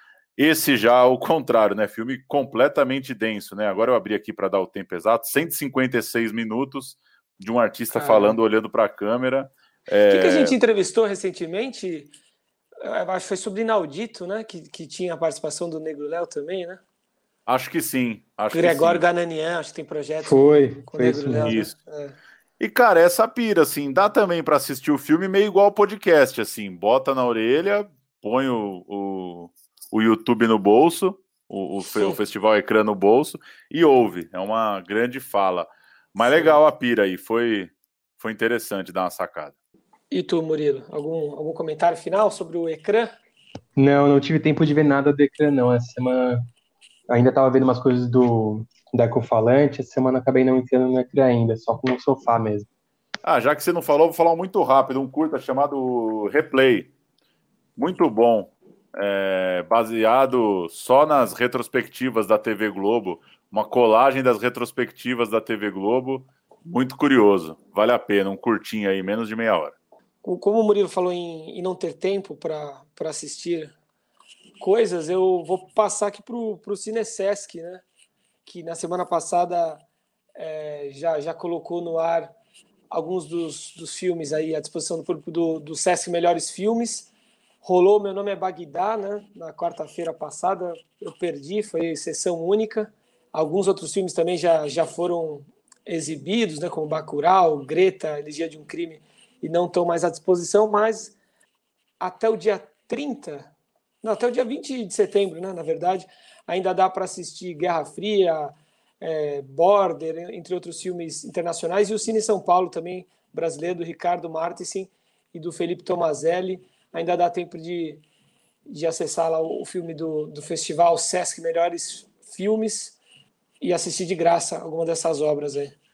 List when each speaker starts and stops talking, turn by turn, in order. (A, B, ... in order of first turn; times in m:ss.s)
0:00.4-0:10.6 A
0:07.9-0:08.4 B
0:10.1-0:12.1 B
0:12.8-0:16.8 B
0:17.5-0:19.0 A
0:18.5-0:22.2 B
0:20.2-0:21.6 C
0:21.4-0:21.8 A
0:22.6-0:39.6 A
0:31.8-0:32.2 B
0:36.2-0:36.6 B
0:40.1-0:43.1 B
0:43.8-0:46.4 C
0:47.1-0:52.7 C
0:53.2-0:56.9 A
0:57.8-1:09.7 A
1:10.2-1:13.7 B
1:14.6-1:17.8 B
1:18.4-1:19.8 B
1:20.4-1:22.3 B
1:22.9-1:27.1 B
1:27.6-1:41.1 B
1:42.0-1:58.0 B
1:58.7-2:03.0 B
2:03.6-2:05.8 B